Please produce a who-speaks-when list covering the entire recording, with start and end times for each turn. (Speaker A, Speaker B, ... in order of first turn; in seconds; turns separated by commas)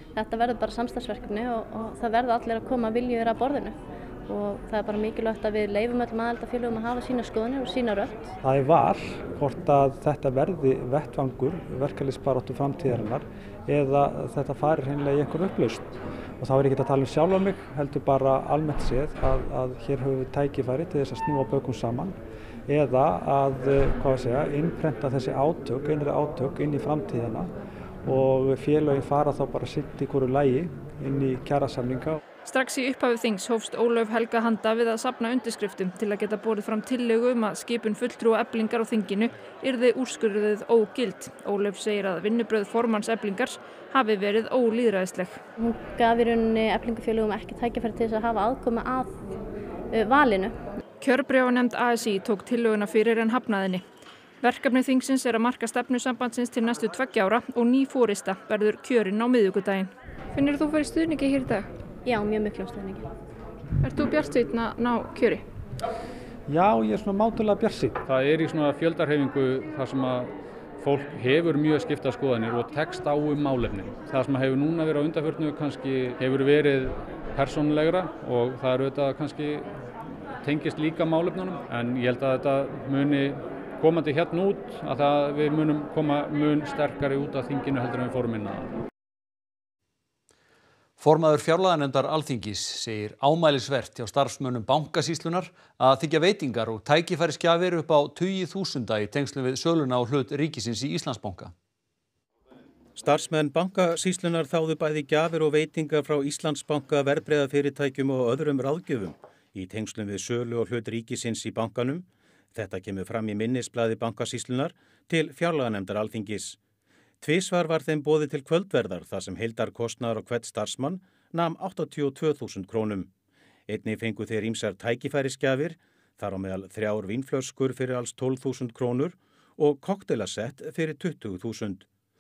Speaker A: 0.2-8.3, Speaker B: 8.4-27.5, Speaker B: 28.1-32.2, Speaker C: 32.5-45.4, Speaker A: 45.6-49.2, Speaker A: 49.9-50.6, Speaker C: 51.0-53.8, Speaker C: 54.4-61.7, Speaker A: 62.0-63.1, Speaker C: 63.8-65.4, Speaker B: 66.5-68.0, Speaker D: 68.1-79.7, Speaker D: 80.4-88.7, Speaker E: 91.0-101.5, Speaker F: 103.0-116.6, Speaker F: 117.2-123.1, Speaker F: 123.7-131.9